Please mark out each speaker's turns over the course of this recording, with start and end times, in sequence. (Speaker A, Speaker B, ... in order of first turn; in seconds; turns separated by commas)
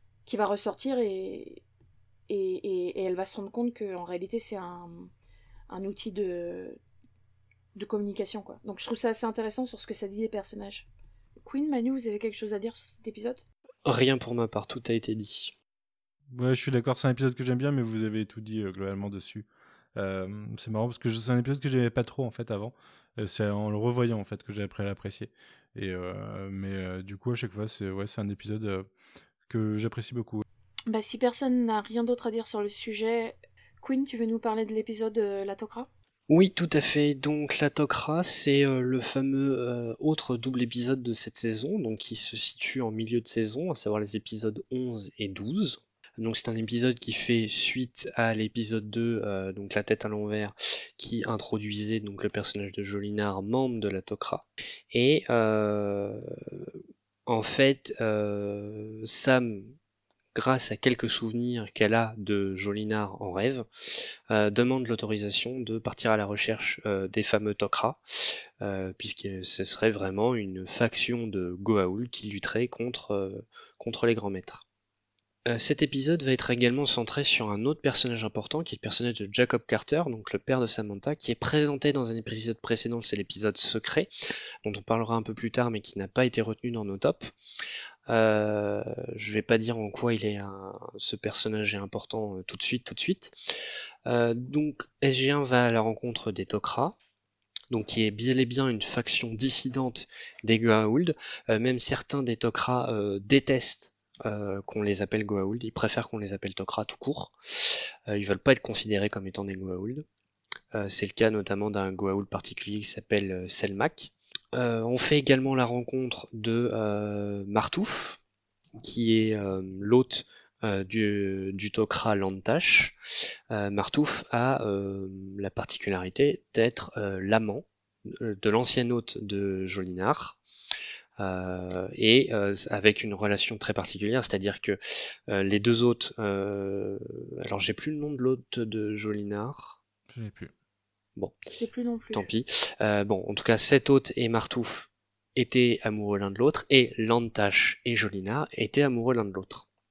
Speaker A: 0.2-1.6, Speaker A: 2.3-5.1, Speaker A: 5.7-6.8, Speaker A: 7.8-10.9, Speaker A: 11.4-13.4, Speaker B: 13.8-15.5, Speaker C: 16.3-28.9, Speaker C: 29.5-30.4, Speaker A: 30.9-35.9, Speaker B: 36.3-56.7, Speaker B: 57.3-59.7, Speaker B: 60.3-63.7, Speaker B: 64.3-68.0, Speaker B: 68.6-74.6, Speaker B: 75.5-84.1, Speaker B: 84.6-87.3, Speaker B: 88.1-93.3, Speaker B: 94.0-97.0, Speaker B: 97.7-110.0, Speaker B: 110.7-118.2, Speaker B: 118.8-123.0, Speaker B: 123.5-130.4, Speaker B: 131.2-139.8, Speaker C: 140.1-140.5, Speaker A: 141.5-142.3, Speaker B: 142.1-149.7